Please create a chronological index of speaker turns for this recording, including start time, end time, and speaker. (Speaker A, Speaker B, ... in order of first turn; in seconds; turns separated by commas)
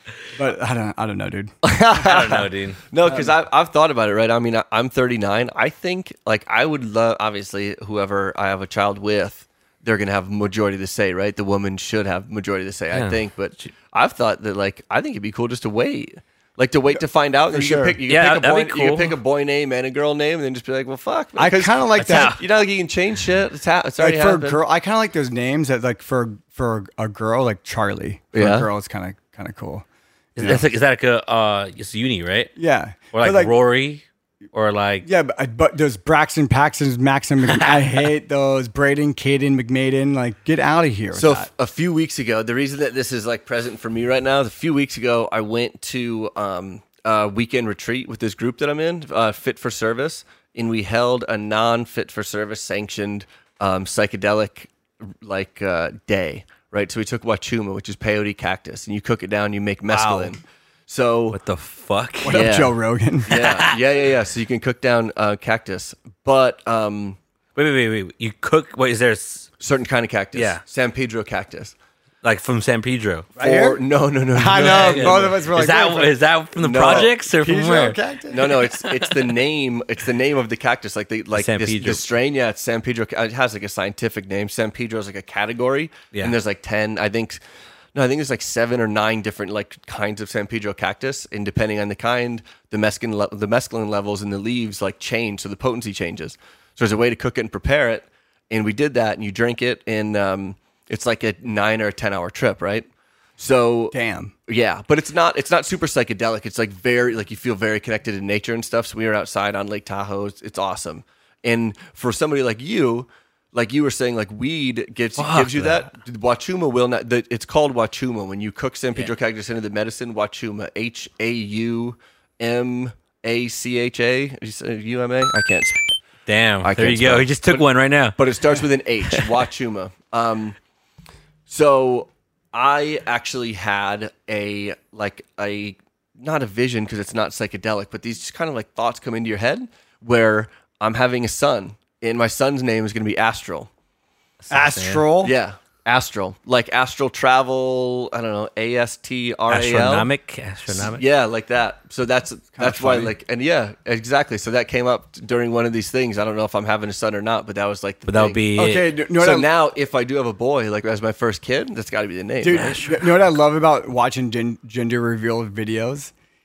Speaker A: 0.3-1.5, Speaker B: 1.6-24.6, Speaker C: 2.0-2.8, Speaker A: 3.0-3.3, Speaker C: 12.9-13.7, Speaker A: 17.5-18.0, Speaker C: 18.1-19.1, Speaker A: 21.4-22.4, Speaker C: 22.0-22.4, Speaker A: 24.0-29.9, Speaker B: 28.3-28.7, Speaker C: 30.4-32.5, Speaker A: 30.4-30.6, Speaker A: 32.6-33.5, Speaker C: 33.1-35.1, Speaker A: 35.0-41.5, Speaker C: 37.5-37.8, Speaker B: 41.1-61.4, Speaker C: 59.9-60.3, Speaker C: 61.3-62.5, Speaker A: 62.2-63.4, Speaker B: 62.3-67.2, Speaker C: 63.3-63.7, Speaker C: 67.6-69.5, Speaker B: 69.6-71.7, Speaker C: 70.3-70.6, Speaker C: 72.2-73.3, Speaker A: 73.4-73.8, Speaker B: 73.4-75.4, Speaker A: 74.3-76.2, Speaker C: 74.6-79.2, Speaker B: 76.6-77.1, Speaker A: 76.8-78.5, Speaker B: 78.3-87.4, Speaker C: 81.3-82.0, Speaker B: 88.0-102.9, Speaker B: 103.4-125.8, Speaker A: 103.9-104.3, Speaker C: 115.2-115.9, Speaker C: 126.3-128.2, Speaker B: 126.6-127.6, Speaker B: 128.2-130.6, Speaker B: 131.5-143.7, Speaker C: 144.4-145.1, Speaker A: 144.5-145.3, Speaker B: 145.2-150.1, Speaker C: 149.5-151.0, Speaker B: 150.7-158.4, Speaker A: 152.6-153.1, Speaker C: 158.1-158.8, Speaker A: 158.6-159.5, Speaker B: 159.2-162.8, Speaker A: 162.4-166.1, Speaker C: 162.5-163.2